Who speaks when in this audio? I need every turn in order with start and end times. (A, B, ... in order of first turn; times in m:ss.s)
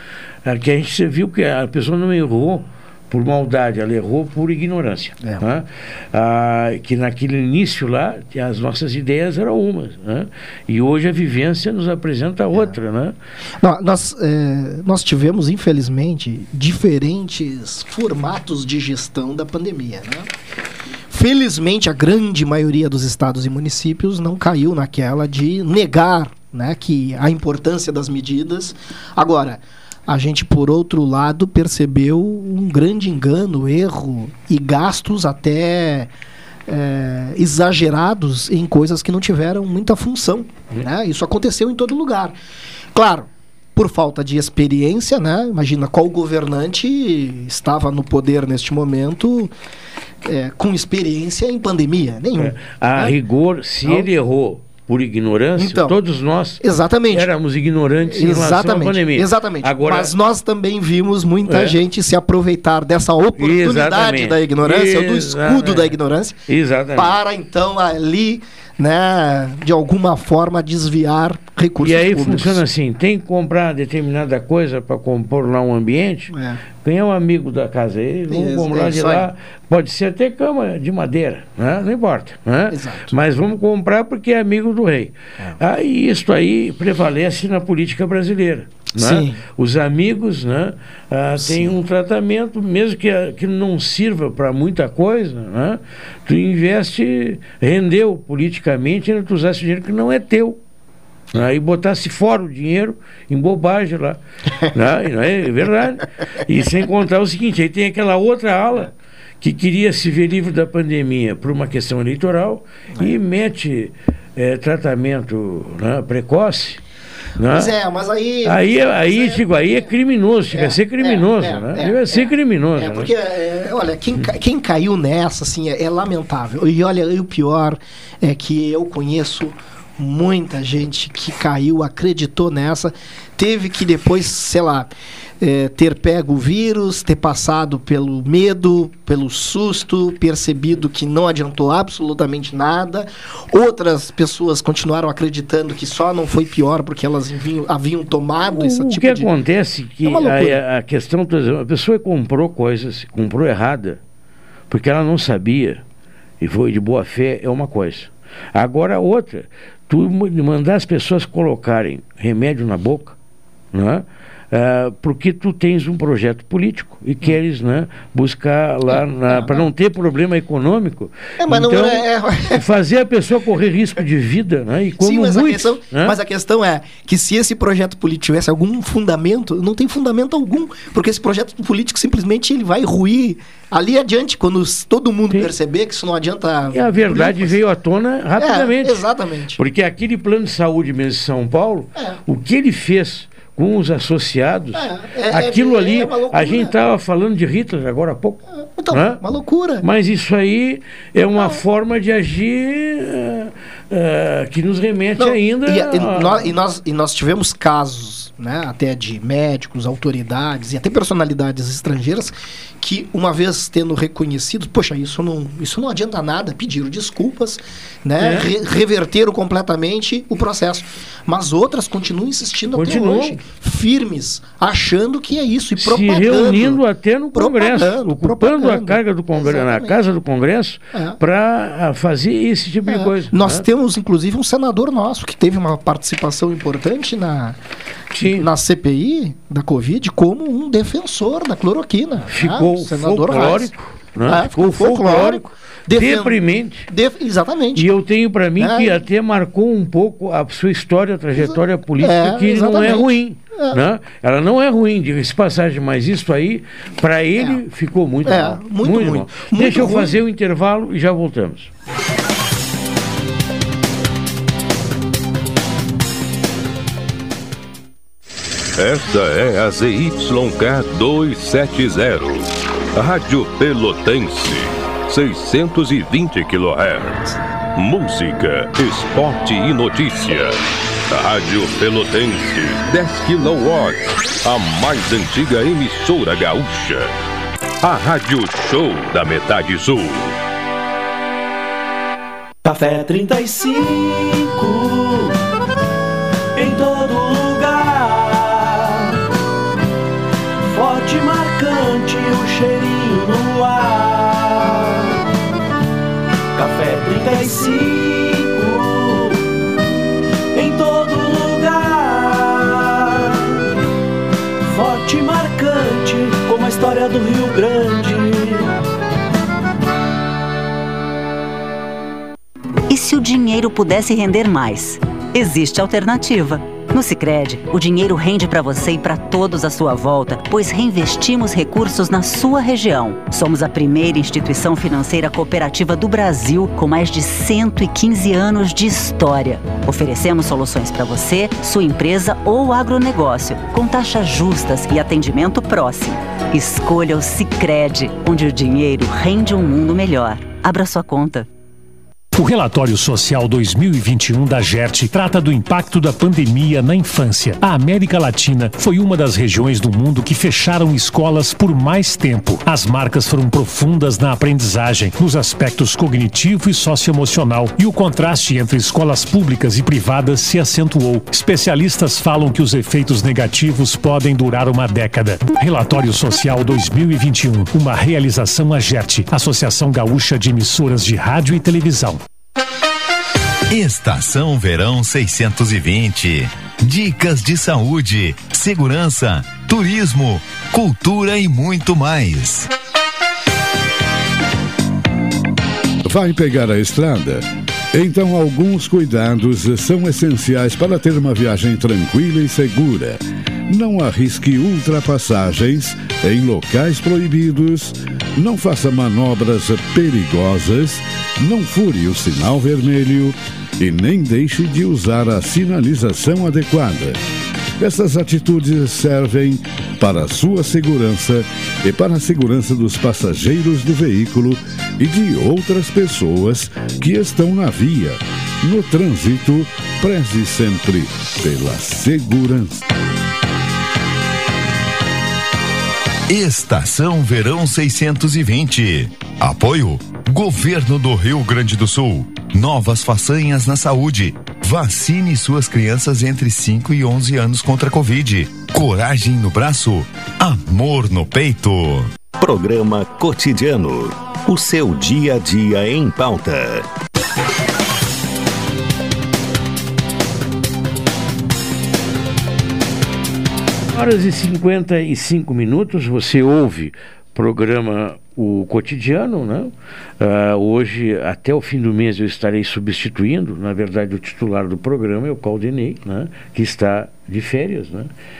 0:00.4-0:13.1 A
0:13.6-0:20.3 B
0:21.1-0:36.1 B
0:36.7-0:42.4 B
0:42.9-0:49.5 B
0:50.2-0:53.1 B
0:52.4-1:00.1 A
0:55.6-0:56.0 B
0:56.6-0:57.3 B
0:58.0-1:06.4 B
1:01.4-1:01.8 A
1:03.4-1:06.0 A
1:06.5-1:07.1 A
1:06.9-1:12.6 B
1:11.8-1:40.6 A
1:16.3-1:16.6 B
1:18.3-1:19.3 B
1:22.7-1:23.1 B
1:29.0-1:29.4 B
1:31.4-1:31.8 B
1:41.3-1:56.8 A
1:57.4-1:57.7 A
1:57.5-1:59.5 B
1:58.4-2:03.1 A
2:00.5-2:29.3 B
2:28.5-2:34.0 A
2:30.0-2:30.6 B
2:34.7-2:35.8 A
2:36.4-2:43.2 A
2:43.7-2:56.2 A
2:48.9-2:49.7 B
2:51.4-2:52.6 B
2:55.0-3:07.6 B
3:06.7-3:09.0 A
3:08.4-3:09.6 B
3:09.6-3:19.2 A
3:14.7-3:16.7 B
3:18.5-3:19.8 B
3:19.8-3:26.5 A
3:25.2-3:46.8 B
3:38.2-3:38.5 A
3:42.7-3:43.4 A
3:45.8-3:53.6 A
3:47.3-3:50.0 B
3:50.9-3:51.2 B
3:52.9-3:57.6 B
3:58.1-3:58.5 A
3:58.2-4:03.7 B
4:02.3-4:06.9 A
4:04.2-4:07.9 B
4:07.7-4:21.7 A
4:08.6-4:09.0 B
4:11.3-4:13.8 B
4:18.2-4:20.2 B
4:28.8-4:47.1 C
4:47.8-4:50.4 C
4:52.6-4:55.4 D
4:56.6-4:59.2 D
5:00.6-5:05.2 D
5:06.5-5:09.5 D
5:10.5-5:13.6 D
5:14.6-5:18.7 D
5:22.9-5:51.5 E
5:52.3-6:22.2 F
6:23.7-6:32.7 G
6:36.0-6:57.2 H
6:57.8-7:12.8 H
7:16.3-7:32.2 G
7:32.4-7:36.8 I
7:43.9-7:58.1 A